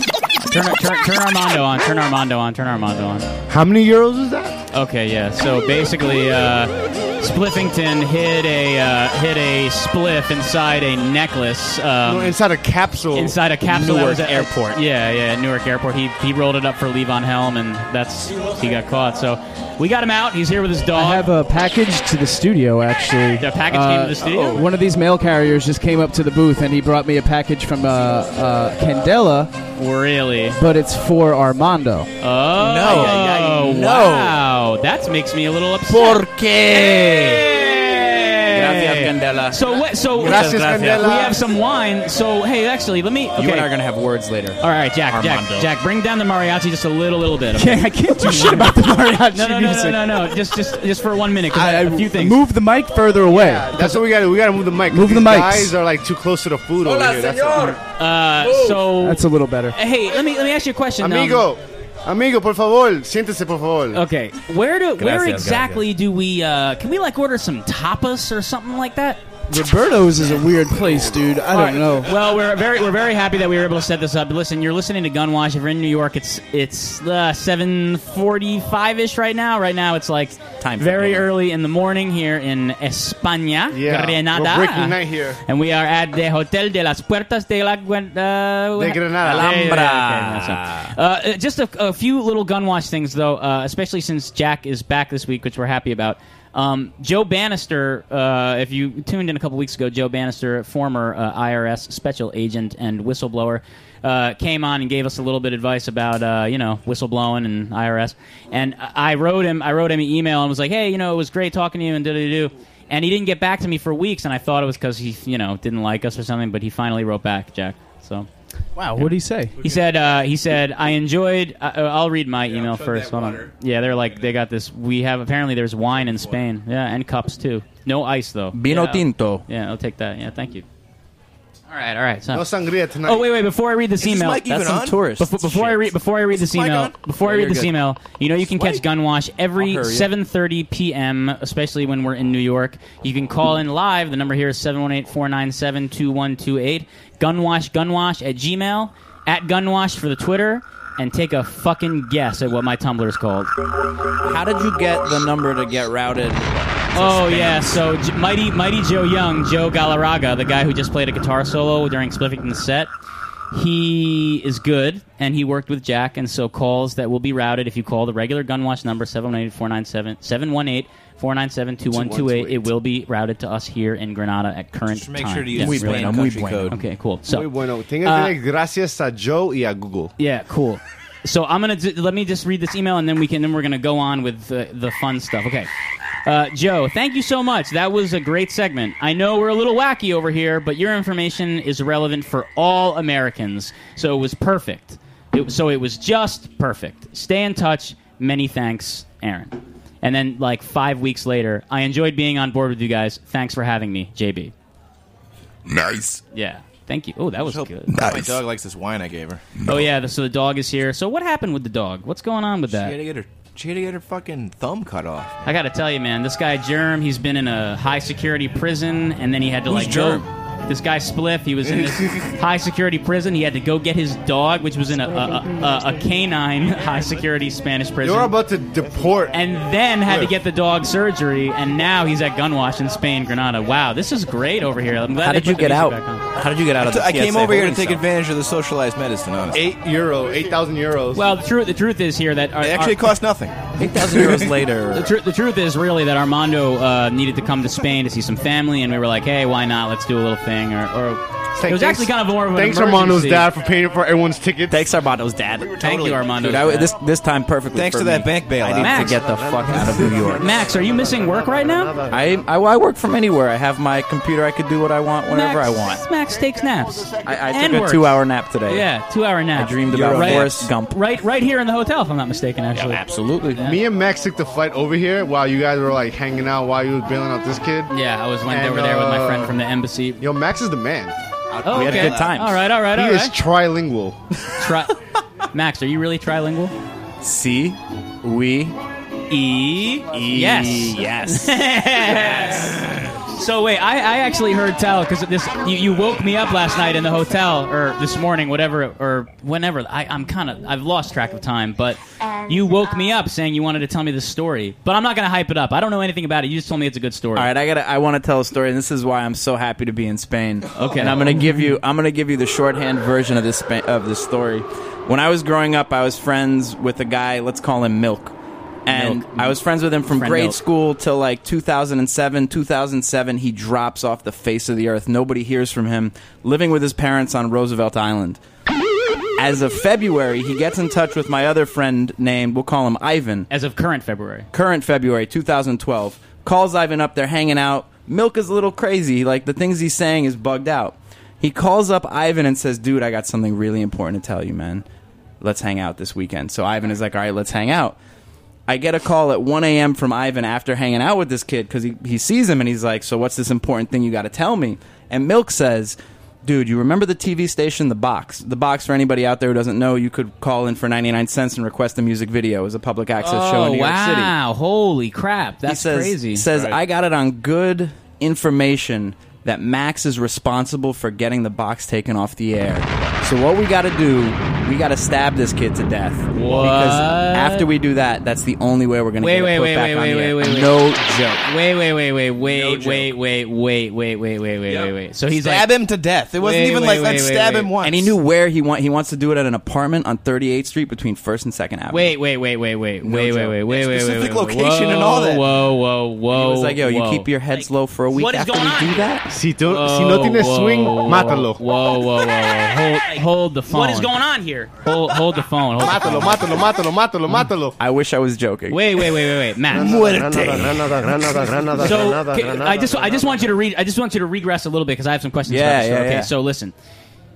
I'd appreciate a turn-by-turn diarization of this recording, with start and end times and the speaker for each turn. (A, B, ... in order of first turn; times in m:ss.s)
0:00.5-0:03.2 A
0:03.5-0:04.6 B
0:04.7-0:12.4 A
0:12.0-0:13.4 B
0:13.1-0:21.3 A
0:14.0-0:14.4 C
0:20.9-0:29.5 D
0:23.4-0:24.6 A
0:29.8-0:30.6 A
0:30.6-0:32.1 D
0:32.2-0:43.7 A
0:32.6-0:34.4 C
0:32.9-0:33.1 E
0:35.9-0:37.5 C
0:38.5-0:41.0 C
0:40.2-0:41.4 B
0:43.4-0:45.7 C
0:44.6-0:48.8 A
0:47.5-0:50.1 D
0:49.3-0:52.4 A
0:51.5-0:54.0 D
0:53.3-0:57.8 B
0:54.9-0:55.7 D
0:57.8-1:01.5 A
0:58.9-0:59.8 D
1:01.0-1:04.0 B
1:03.9-1:09.2 A
1:09.5-1:12.1 D
1:11.5-1:58.3 A
1:20.6-1:21.3 C
1:23.7-1:25.4 B
1:28.8-1:29.5 B
1:29.2-1:30.9 C
1:58.8-1:59.5 D
1:59.0-2:10.6 A
1:59.6-2:00.2 E
2:02.5-2:04.3 E
2:05.9-2:06.4 E
2:08.5-2:09.4 C
2:11.7-2:12.5 A
2:12.3-2:13.3 B
2:13.0-2:33.5 A
2:14.0-2:15.0 E
2:14.7-2:15.9 C
2:16.3-2:17.0 E
2:17.2-2:17.7 C
2:19.6-2:20.1 C
2:34.2-2:37.8 C
2:36.9-2:42.9 A
2:43.5-2:57.5 A
2:51.9-2:52.6 B
2:54.9-2:56.8 E
2:55.5-2:56.8 C
2:57.2-3:00.1 B
2:58.0-2:58.3 A
3:00.2-3:05.7 A
3:06.2-3:24.5 A
3:26.3-3:28.0 A
3:27.4-3:29.5 E
3:29.6-3:33.0 A
3:32.7-3:35.5 E
3:35.4-3:48.3 A
3:39.7-3:40.2 E
3:39.7-3:40.2 C
3:41.6-3:42.3 E
3:48.0-3:49.4 B
3:49.3-3:56.2 A
3:50.0-3:50.3 B
3:55.2-3:58.0 C
3:56.8-3:59.6 E
3:59.5-4:01.2 B
4:01.1-4:03.0 A
4:02.6-4:04.6 E
4:03.8-4:05.1 C
4:04.9-4:13.5 A
4:11.6-4:14.9 B
4:14.7-4:20.7 C
4:15.6-4:16.3 E
4:15.8-4:16.9 A
4:17.7-4:19.2 E
4:18.7-4:19.2 A
4:20.2-4:22.0 A
4:22.1-4:26.0 C
4:25.3-4:33.8 A
4:27.2-4:28.9 C
4:29.5-4:31.0 C
4:29.9-4:30.5 E
4:32.7-4:33.6 C
4:33.6-4:37.9 B
4:37.9-4:40.2 A
4:38.5-4:39.6 B
4:40.2-4:41.2 B
4:41.5-4:42.3 E
4:41.6-4:43.3 A
4:41.7-4:42.6 C
4:42.9-4:44.2 B
4:44.6-4:44.9 A
4:45.5-4:46.7 A
4:47.2-4:48.7 C
4:49.3-5:07.5 A
4:50.1-4:52.9 C
5:07.3-5:18.3 C
5:10.7-5:11.6 A
5:18.8-5:28.4 C
5:18.9-5:20.6 A
5:29.4-5:33.5 C
5:33.5-5:34.5 A
5:34.5-5:44.8 C
5:45.4-5:48.0 C
5:48.7-6:04.3 C
6:03.2-6:06.5 A
6:05.6-6:21.4 C
6:16.3-6:17.7 A
6:19.2-6:20.7 A
6:21.4-6:25.7 A
6:22.6-6:23.0 C
6:22.6-6:23.1 E
6:24.7-6:28.1 E
6:26.4-6:27.7 A
6:27.8-6:32.1 C
6:31.9-6:39.1 A
6:33.0-6:35.4 E
6:36.3-6:39.2 C
6:39.3-6:41.6 B
6:39.7-6:46.6 A
6:43.7-6:44.1 C
6:45.8-6:47.8 B
6:47.8-6:49.1 C
6:48.7-6:50.2 A
6:49.8-6:50.7 E
6:50.1-6:50.9 C
6:51.7-6:56.7 A
6:55.5-6:56.3 C